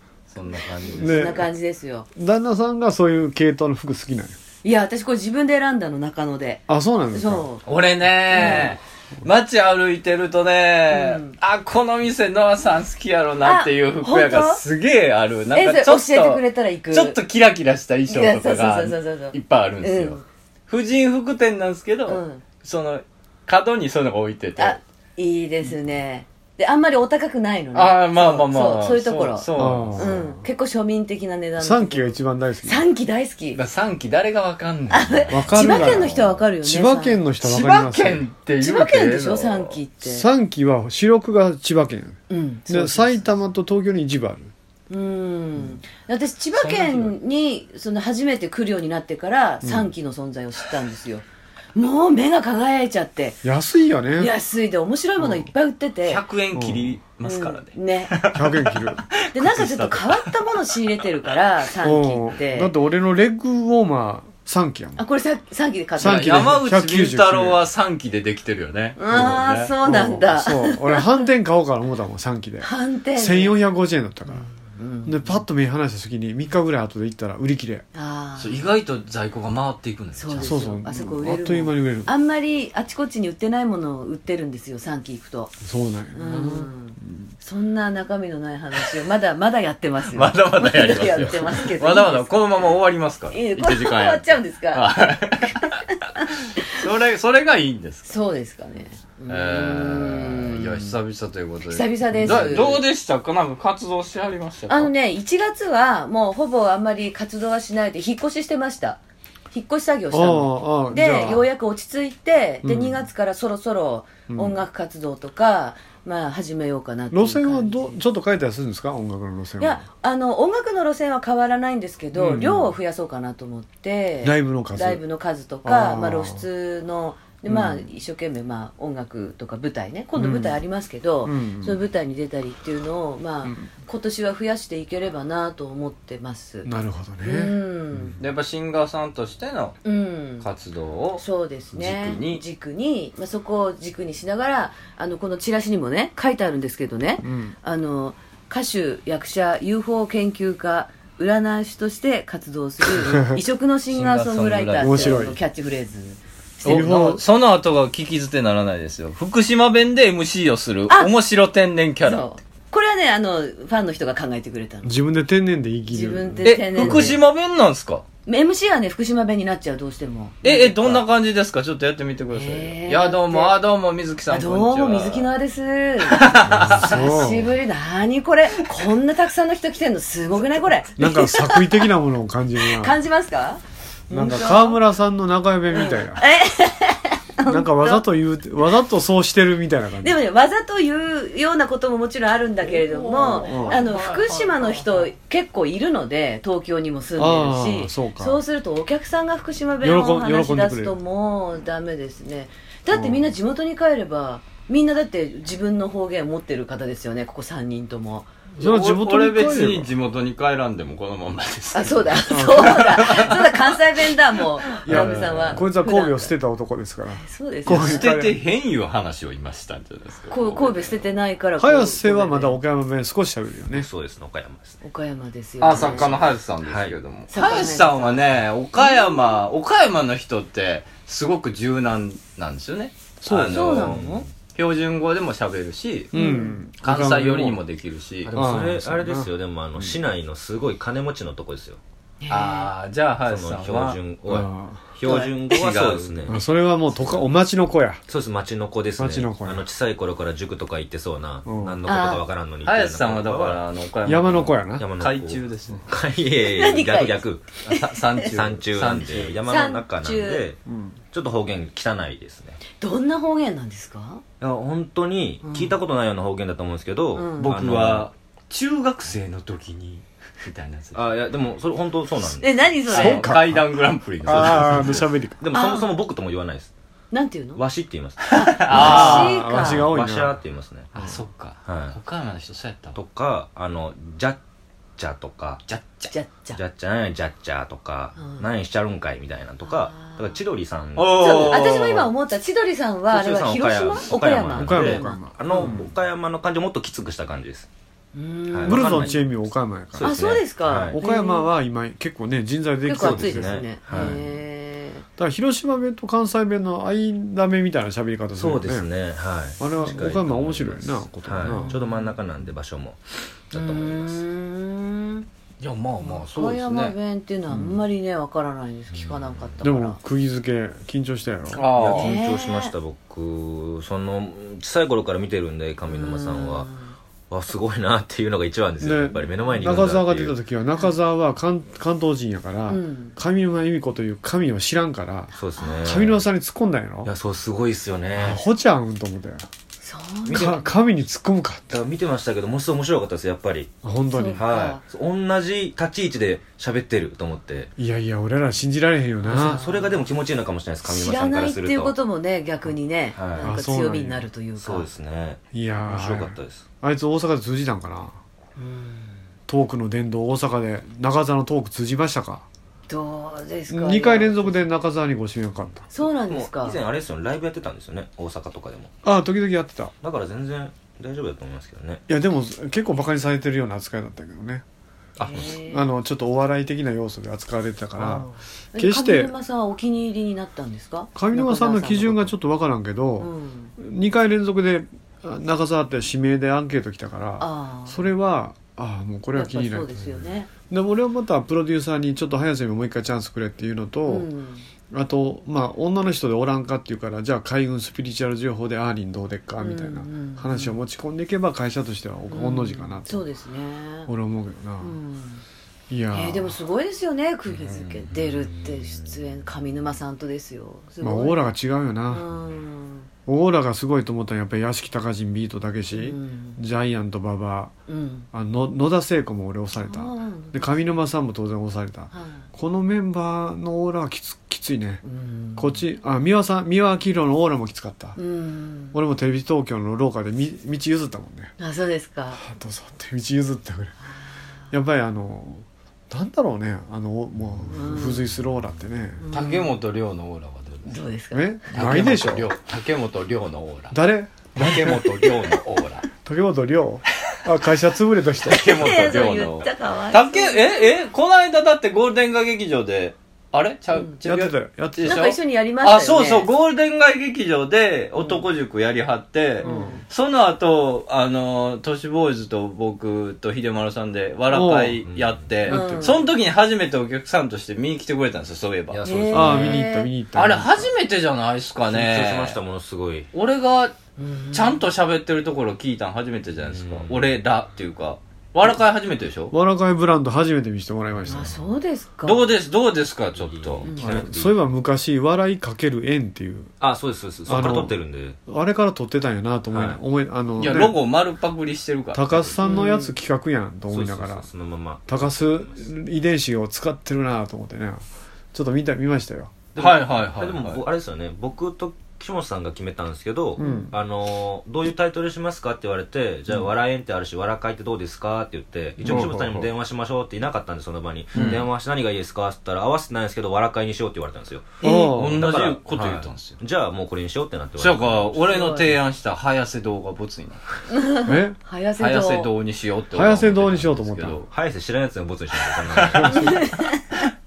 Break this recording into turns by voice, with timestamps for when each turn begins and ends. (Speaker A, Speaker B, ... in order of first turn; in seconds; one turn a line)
Speaker A: 0.3-1.2
Speaker B: 0.9-1.5
Speaker C: 1.0-2.1
Speaker B: 2.1-4.4
Speaker C: 4.6-6.6
Speaker B: 6.7-7.5
Speaker C: 7.1-7.6
Speaker A: 7.7-24.8
Speaker C: 8.3-8.7
Speaker C: 10.9-11.3
Speaker C: 13.4-14.6
Speaker C: 15.5-17.2
Speaker C: 18.1-20.2
Speaker C: 22.1-22.4
Speaker C: 24.6-33.6
Speaker A: 27.7-30.1
Speaker B: 29.5-30.3
Speaker B: 31.6-32.8
Speaker A: 33.5-36.4
Speaker C: 34.9-37.2
Speaker B: 35.3-38.2
Speaker A: 37.4-39.8
Speaker C: 38.6-40.2
Speaker B: 40.0-44.5
Speaker C: 42.3-43.2
Speaker C: 44.9-51.2
Speaker A: 46.6-47.1
Speaker B: 49.6-49.9
Speaker C: 51.8-53.4
Speaker B: 53.4-54.3
Speaker C: 54.2-56.2
Speaker B: 55.2-55.5
Speaker A: 56.1-60.3
Speaker B: 56.5-57.0
Speaker C: 57.2-58.1
Speaker B: 58.3-59.1
Speaker C: 59.3-62.7
Speaker B: 61.8-65.0
Speaker C: 65.0-66.3
Speaker B: 66.0-67.6
Speaker A: 66.0-69.7
Speaker C: 69.0-71.0
Speaker B: 69.8-74.5
Speaker C: 72.6-73.5
Speaker C: 74.8-75.4
Speaker B: 75.0-77.8
Speaker C: 77.9-78.6
Speaker A: 78.4-80.6
Speaker C: 80.2-85.5
Speaker B: 80.4-82.1
Speaker B: 85.6-87.3
Speaker C: 86.1-92.5
Speaker A: 90.1-98.2
Speaker C: 93.3-94.9
Speaker C: 98.1-100.6
Speaker A: 99.3-104.9
Speaker C: 101.7-102.8
Speaker B: 102.2-102.8
Speaker C: 104.7-109.0
Speaker C: 109.5-118.0
Speaker B: 110.1-111.5
Speaker B: 112.6-113.0
Speaker B: 114.3-114.6
Speaker B: 117.1-119.8
Speaker C: 119.6-136.7
Speaker B: 122.1-122.7
Speaker B: 124.2-125.0
Speaker B: 125.6-126.4
Speaker B: 127.5-127.8
Speaker B: 130.2-130.6
Speaker B: 131.2-131.8
Speaker B: 133.4-133.7
Speaker B: 136.6-138.1
Speaker C: 137.2-138.1
Speaker A: 138.2-139.8
Speaker C: 139.8-140.4
Speaker A: 140.4-141.2
Speaker C: 141.2-156.2
Speaker A: 141.7-142.4
Speaker B: 147.2-147.5
Speaker B: 153.1-153.4
Speaker A: 153.9-155.2
Speaker B: 154.8-155.4
Speaker A: 156.6-162.3
Speaker B: 156.6-157.2
Speaker C: 162.0-164.9
Speaker B: 164.8-167.2
Speaker C: 165.9-167.2
Speaker A: 166.4-168.0
Speaker C: 168.2-170.7
Speaker A: 170.4-175.3
Speaker B: 170.5-171.0
Speaker C: 172.3-173.5
Speaker C: 174.3-181.6
Speaker A: 176.1-176.9
Speaker B: 176.5-177.5
Speaker B: 181.0-183.0
Speaker C: 182.7-184.8
Speaker B: 184.1-186.3
Speaker C: 185.7-188.0
Speaker B: 187.5-190.2
Speaker C: 190.0-208.3
Speaker A: 192.6-195.1
Speaker B: 193.4-193.8
Speaker B: 197.2-198.4
Speaker B: 199.8-201.0
Speaker B: 202.9-203.3
Speaker A: 208.6-213.6
Speaker B: 208.6-209.9
Speaker C: 211.7-216.3
Speaker B: 212.3-212.8
Speaker A: 214.7-215.6
Speaker B: 214.8-218.4
Speaker C: 217.2-218.1
Speaker A: 217.7-221.0
Speaker C: 220.3-222.6
Speaker B: 221.6-223.9
Speaker D: 223.7-224.8
Speaker C: 224.8-226.1
Speaker A: 225.6-233.9
Speaker D: 225.7-226.9
Speaker C: 227.3-228.2
Speaker C: 228.8-229.1
Speaker B: 233.2-234.0
Speaker C: 233.5-234.2
Speaker D: 233.6-234.3
Speaker A: 234.5-236.1
Speaker B: 236.1-237.6
Speaker C: 236.1-236.6
Speaker A: 236.8-238.6
Speaker D: 238.2-241.8
Speaker B: 238.3-240.0
Speaker C: 242.2-242.7
Speaker A: 242.3-244.0
Speaker D: 243.2-247.3
Speaker B: 244.3-244.9
Speaker C: 245.0-245.3
Speaker A: 245.0-246.4
Speaker B: 246.3-248.0
Speaker D: 248.1-253.6
Speaker B: 249.0-249.7
Speaker B: 251.4-251.8
Speaker C: 251.8-252.2
Speaker A: 252.6-255.9
Speaker B: 254.0-254.9
Speaker D: 254.8-257.5
Speaker C: 256.5-257.9
Speaker A: 257.6-259.4
Speaker D: 258.3-260.6
Speaker C: 259.4-260.4
Speaker B: 260.6-261.0
Speaker D: 261.1-262.6
Speaker C: 262.8-264.2
Speaker D: 264.4-268.1
Speaker C: 265.4-265.8
Speaker C: 267.1-267.5
Speaker A: 267.5-271.1
Speaker D: 270.9-272.8
Speaker C: 272.4-273.2
Speaker A: 272.9-275.1
Speaker B: 272.9-273.6
Speaker B: 274.2-275.4
Speaker D: 274.2-276.7
Speaker C: 275.5-275.8
Speaker C: 277.1-277.6
Speaker D: 277.6-282.0
Speaker A: 278.2-279.3
Speaker C: 278.3-279.9
Speaker B: 278.7-280.4
Speaker A: 280.9-283.0
Speaker D: 282.9-284.4
Speaker D: 285.0-285.6
Speaker A: 285.7-286.1
Speaker C: 286.1-286.6
Speaker D: 286.5-291.6
Speaker C: 288.2-288.4
Speaker C: 289.6-290.4
Speaker A: 290.9-292.1
Speaker C: 291.1-295.7
Speaker D: 293.1-297.7
Speaker B: 294.5-295.9
Speaker C: 298.1-299.2
Speaker D: 298.5-299.2
Speaker B: 298.6-300.2
Speaker D: 299.9-301.0
Speaker C: 300.0-301.5
Speaker B: 300.8-304.1
Speaker C: 302.9-305.0
Speaker D: 302.9-304.2
Speaker B: 305.2-308.9
Speaker D: 308.4-314.2
Speaker B: 309.6-311.8
Speaker C: 311.4-311.8
Speaker C: 313.5-315.2
Speaker A: 315.6-317.0
Speaker C: 316.0-320.0
Speaker B: 317.5-317.8
Speaker D: 318.9-319.6
Speaker B: 319.6-321.7
Speaker A: 321.5-322.1
Speaker D: 321.7-326.7
Speaker C: 321.9-322.7
Speaker C: 325.9-326.9
Speaker D: 327.3-330.4
Speaker B: 328.8-337.1
Speaker C: 332.7-333.1
Speaker D: 335.3-336.3
Speaker C: 335.6-335.9
Speaker D: 337.0-338.4
Speaker B: 338.1-339.5
Speaker C: 339.8-340.4
Speaker D: 340.2-340.7
Speaker B: 340.3-341.7
Speaker D: 341.7-343.8
Speaker B: 343.8-344.4
Speaker C: 344.1-344.8
Speaker D: 344.4-347.7
Speaker B: 347.8-349.7
Speaker D: 349.2-351.9
Speaker C: 349.3-349.9
Speaker C: 350.8-354.9
Speaker D: 353.1-353.6
Speaker B: 353.4-354.2
Speaker D: 354.6-356.6
Speaker B: 355.5-358.2
Speaker C: 358.6-359.1
Speaker B: 359.5-362.4
Speaker C: 362.9-364.6
Speaker B: 363.7-365.9
Speaker C: 365.9-366.8
Speaker D: 366.0-368.9
Speaker B: 369.0-369.9
Speaker D: 370.0-372.0
Speaker B: 372.1-374.6
Speaker D: 375.2-375.6
Speaker C: 375.2-375.8
Speaker B: 375.4-379.3
Speaker C: 378.0-382.3
Speaker B: 381.1-390.1
Speaker C: 383.2-383.7
Speaker C: 387.4-388.0
Speaker C: 389.3-390.5
Speaker B: 390.7-394.3
Speaker C: 394.1-394.6
Speaker B: 394.9-403.3
Speaker C: 399.6-400.8
Speaker C: 402.3-404.1
Speaker B: 404.1-405.0
Speaker C: 404.8-405.4
Speaker B: 405.9-406.6
Speaker C: 406.1-411.4
Speaker D: 408.1-409.1
Speaker B: 411.0-412.3
Speaker C: 412.1-413.1
Speaker B: 413.2-417.7
Speaker C: 415.9-416.6
Speaker C: 417.9-418.2
Speaker B: 418.3-425.0
Speaker C: 419.8-420.9
Speaker C: 422.1-422.4
Speaker C: 425.0-425.6
Speaker B: 425.6-428.2
Speaker C: 428.2-428.9
Speaker B: 428.9-431.5
Speaker C: 431.6-432.4
Speaker B: 432.3-433.9
Speaker B: 434.7-439.2
Speaker C: 437.7-438.2
Speaker C: 439.2-439.7
Speaker A: 439.3-441.0
Speaker C: 440.9-441.6
Speaker B: 441.3-442.5
Speaker A: 441.7-444.0
Speaker B: 443.9-445.4
Speaker A: 444.5-446.1
Speaker B: 446.2-448.9
Speaker A: 448.4-469.0
Speaker C: 448.7-450.9
Speaker B: 454.2-455.2
Speaker C: 455.0-456.5
Speaker C: 459.6-460.0
Speaker B: 459.6-460.0
Speaker B: 464.5-465.0
Speaker D: 465.1-465.5
Speaker B: 465.6-466.2
Speaker C: 465.7-466.3
Speaker D: 468.9-469.8
Speaker C: 469.0-470.1
Speaker B: 469.3-470.9
Speaker A: 470.3-472.6
Speaker D: 471.9-473.3
Speaker A: 473.3-473.9
Speaker C: 474.2-474.8
Speaker A: 474.5-479.5
Speaker D: 476.7-477.3
Speaker B: 479.5-481.5
Speaker D: 481.2-481.6
Speaker C: 481.3-482.4
Speaker A: 482.2-483.9
Speaker D: 483.4-484.6
Speaker C: 483.9-484.1
Speaker B: 484.0-486.7
Speaker D: 486.8-488.4
Speaker B: 487.4-491.0
Speaker D: 489.7-490.0
Speaker A: 490.6-492.6
Speaker B: 492.1-494.5
Speaker C: 492.6-493.1
Speaker D: 493.9-495.9
Speaker B: 495.1-499.5
Speaker D: 499.7-518.4
Speaker A: 499.8-500.8
Speaker B: 503.6-503.9
Speaker C: 503.6-503.9
Speaker B: 509.0-509.7
Speaker A: 511.3-511.7
Speaker B: 511.3-511.6
Speaker A: 514.8-516.6
Speaker B: 514.8-515.4
Speaker A: 517.8-520.7
Speaker C: 518.4-518.9
Speaker C: 520.9-522.5
Speaker B: 521.2-521.6
Speaker A: 522.0-524.5
Speaker B: 523.1-524.4
Speaker D: 524.5-526.7
Speaker A: 525.6-526.6
Speaker C: 526.5-526.9